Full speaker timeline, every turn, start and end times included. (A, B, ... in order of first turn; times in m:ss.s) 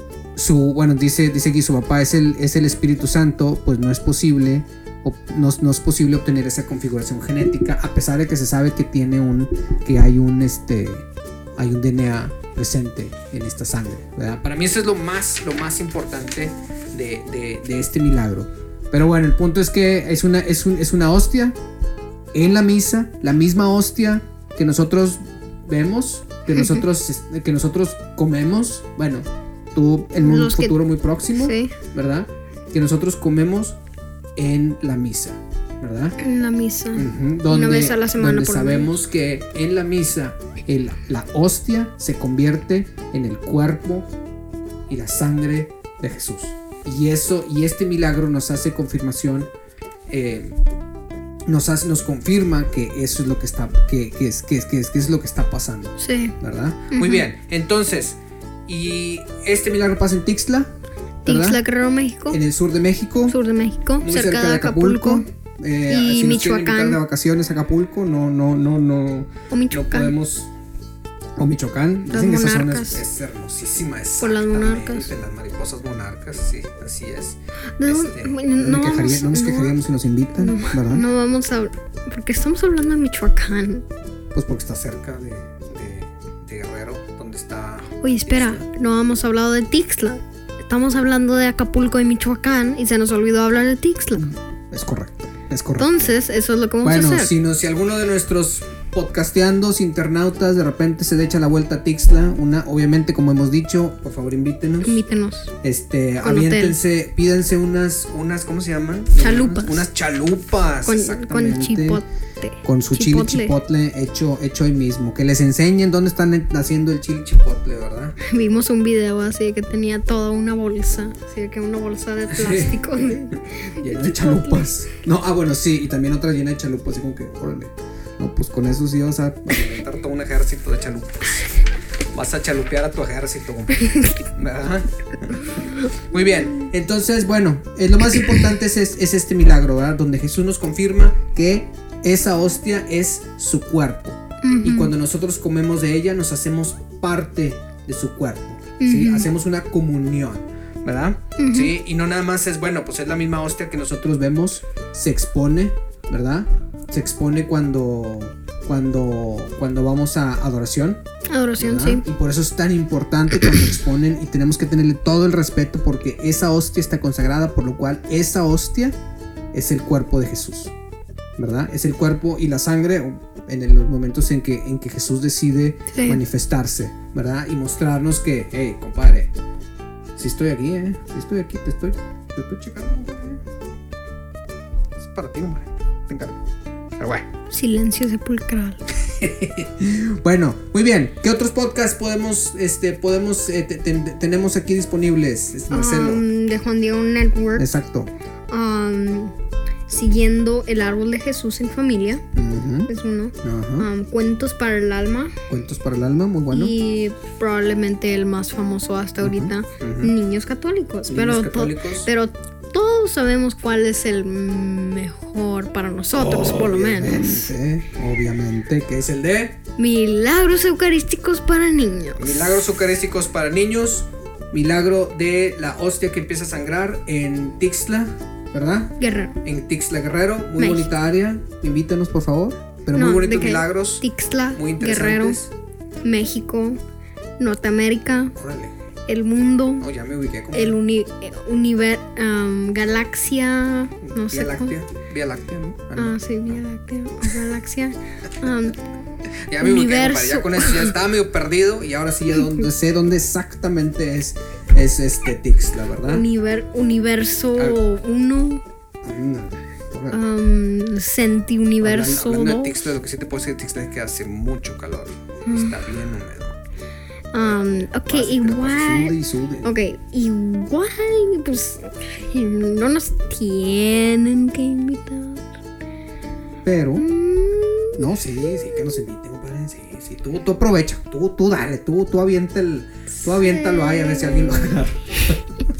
0:00.3-0:21.6 A
0:22.3-0:33.8 A
0:26.6-0:26.8 B
0:30.2-0:30.8 B
0:31.3-0:31.7 B
0:34.4-0:36.2 A
0:36.2-0:38.9 B
0:36.9-0:44.1 A
0:44.9-0:49.5 A
0:50.1-0:50.6 A
0:51.4-1:00.7 A
0:56.0-0:56.4 B
0:56.9-0:57.3 B
1:01.2-1:02.4 B
1:01.2-1:01.6 A
1:02.3-1:03.4 A
1:03.3-1:05.2 B
1:04.0-1:10.5 A
1:05.9-1:07.0 B
1:09.5-1:10.1 B
1:11.4-1:21.1 A
1:12.1-1:13.0 B
1:14.2-1:15.1 B
1:17.8-1:19.8 B
1:20.4-1:23.8 B
1:24.3-1:28.6 A
1:28.0-1:34.3 B
1:34.2-1:36.1 A
1:35.8-1:37.3 B
1:36.8-1:45.0 A
1:44.8-1:45.5 B
1:45.6-1:52.0 A
1:46.2-1:46.8 B
1:49.2-1:49.8 B
1:50.8-1:53.6 B
1:52.6-1:58.2 A
1:58.2-2:04.7 B
2:02.3-2:11.5 A
2:12.1-2:41.0 A
2:24.4-2:24.9 B
2:28.8-2:29.3 B
2:31.4-2:31.7 B
2:41.3-2:42.0 B
2:41.6-2:48.9 A
2:49.5-2:50.7 A
2:51.4-2:59.3 A
2:55.9-2:56.2 B
3:00.2-3:03.4 A
3:05.0-3:06.4 A
3:07.0-3:07.3 A
3:07.5-3:08.9 B
3:08.9-3:16.2 A
3:15.7-3:17.7 B
3:17.6-3:18.1 A
3:18.5-3:19.3 B
3:19.9-3:22.2 B
3:22.3-3:22.9 A
3:22.9-3:25.4 B
3:23.4-3:23.9 A
3:25.5-3:26.7 A
3:26.5-3:37.5 B
3:29.2-3:30.1 A
3:31.1-3:32.1 A
3:36.1-3:39.6 A
3:39.8-3:42.6 B
3:42.2-3:55.5 A
3:49.0-3:49.3 B
3:50.6-3:50.9 B
3:53.0-3:55.4 B
3:56.0-3:56.8 B
3:57.4-3:58.3 B
3:58.3-3:58.7 A
3:59.1-3:59.9 B
3:59.8-4:00.8 A
4:00.5-4:04.7 B
4:04.1-4:06.2 A
4:06.0-4:08.8 B
4:09.5-4:16.2 A
4:09.6-4:10.9 B
4:16.1-4:18.6 B
4:19.0-4:20.2 A
4:20.1-4:22.9 B
4:21.8-4:26.6 A
4:25.4-4:25.7 B
4:27.3-4:35.5 B
4:28.1-4:29.7 A
4:36.6-4:37.0 A
4:37.0-4:38.2 B
4:38.0-4:45.6 A
4:43.2-4:44.8 B